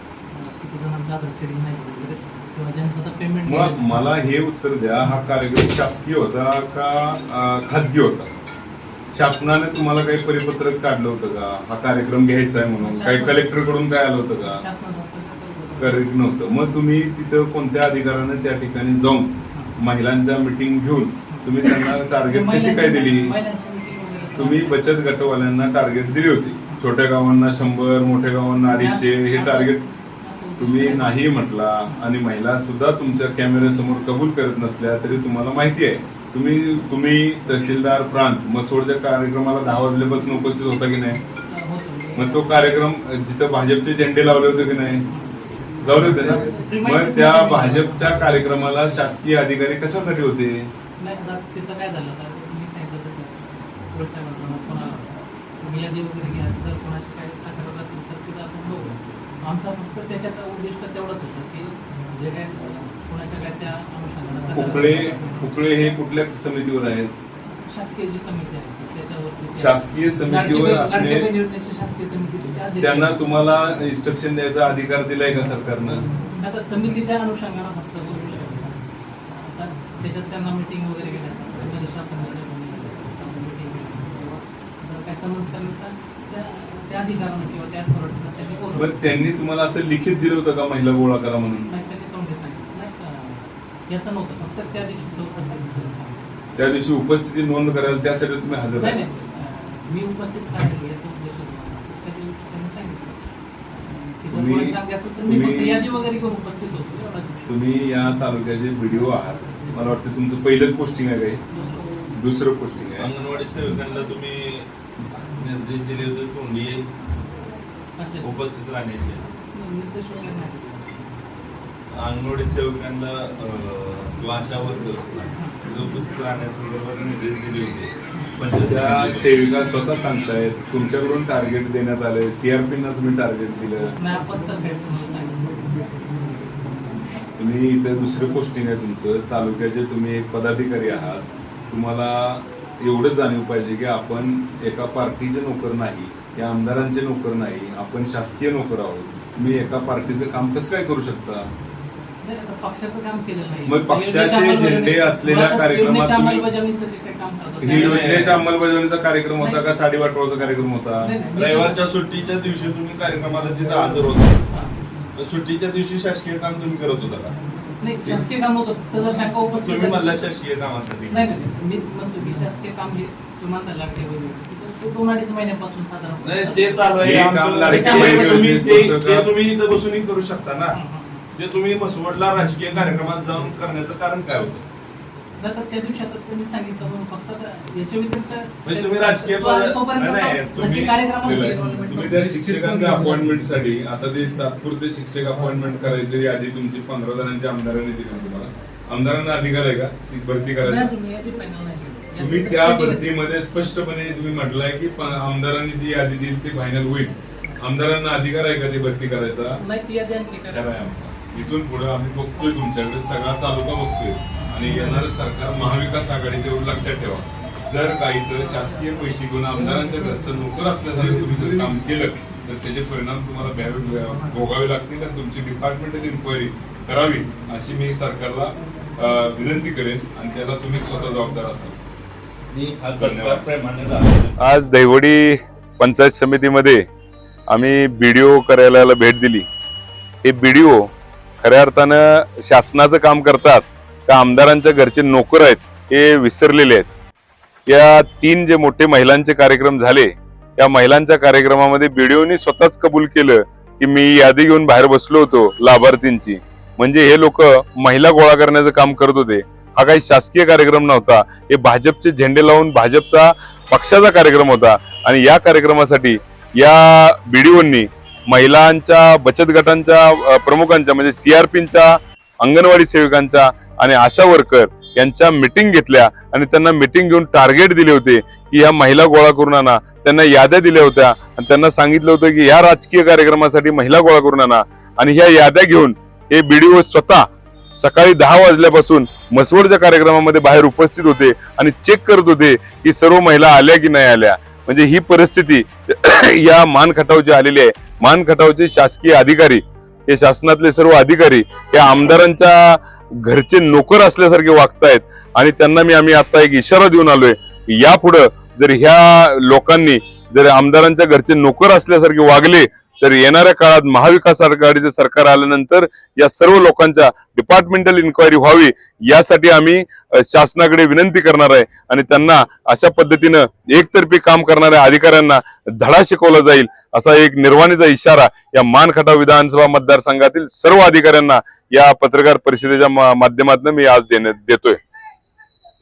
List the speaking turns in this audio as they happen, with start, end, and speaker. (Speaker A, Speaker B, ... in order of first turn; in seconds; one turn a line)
Speaker A: 0.3-4.3
Speaker B: 3.5-8.3
Speaker B: 9.1-14.6
Speaker A: 12.8-13.7
Speaker A: 14.4-16.1
Speaker B: 15.8-23.4
Speaker A: 21.3-24.9
Speaker B: 24.4-29.8
Speaker A: 28.7-32.1
Speaker B: 30.6-41.2
Speaker A: 41.5-42.7
Speaker B: 42.1-45.0
Speaker A: 45.1-48.9
Speaker B: 45.8-50.7
Speaker A: 51.0-65.9
Speaker B: 64.5-67.1
Speaker A: 67.5-73.2
Speaker B: 69.6-71.3
Speaker B: 72.8-76.0
Speaker A: 76.2-89.0
Speaker B: 88.8-91.7
Speaker A: 91.7-96.3
Speaker B: 96.6-99.0
Speaker A: 98.8-103.2
Speaker A: 103.7-107.7
Speaker B: 104.3-105.8
Speaker B: 107.5-111.4
Speaker A: 111.5-112.1
Speaker B: 112.1-113.1
Speaker C: 113.0-114.7
Speaker C: 115.3-116.9
Speaker A: 118.0-118.3
Speaker C: 118.2-119.2
Speaker A: 119.5-121.1
Speaker C: 121.9-129.5
Speaker B: 128.7-133.9
Speaker A: 134.0-137.1
Speaker B: 137.4-151.5
Speaker A: 152.2-158.4
Speaker B: 153.7-156.5
Speaker B: 157.6-161.1
Speaker C: 157.7-158.4
Speaker A: 159.4-159.7
Speaker A: 161.0-161.8
Speaker C: 161.3-164.4
Speaker A: 164.5-164.8
Speaker C: 165.2-167.3
Speaker A: 167.8-170.3
Speaker C: 169.6-171.3
Speaker A: 171.1-178.6
Speaker C: 176.2-180.8
Speaker B: 177.0-179.3
Speaker A: 180.7-181.2
Speaker C: 181.3-184.6
Speaker A: 185.4-193.3
Speaker C: 188.7-191.0
Speaker B: 191.2-200.9
Speaker A: 200.6-203.1
Speaker B: 202.2-209.6
Speaker A: 209.6-210.8
Speaker B: 210.5-231.8
Speaker A: 214.4-215.0
Speaker C: 232.5-234.4
Speaker B: 233.0-233.4
Speaker B: 234.4-236.8
Speaker B: 237.5-239.5
Speaker B: 240.2-246.9
Speaker B: 247.7-334.8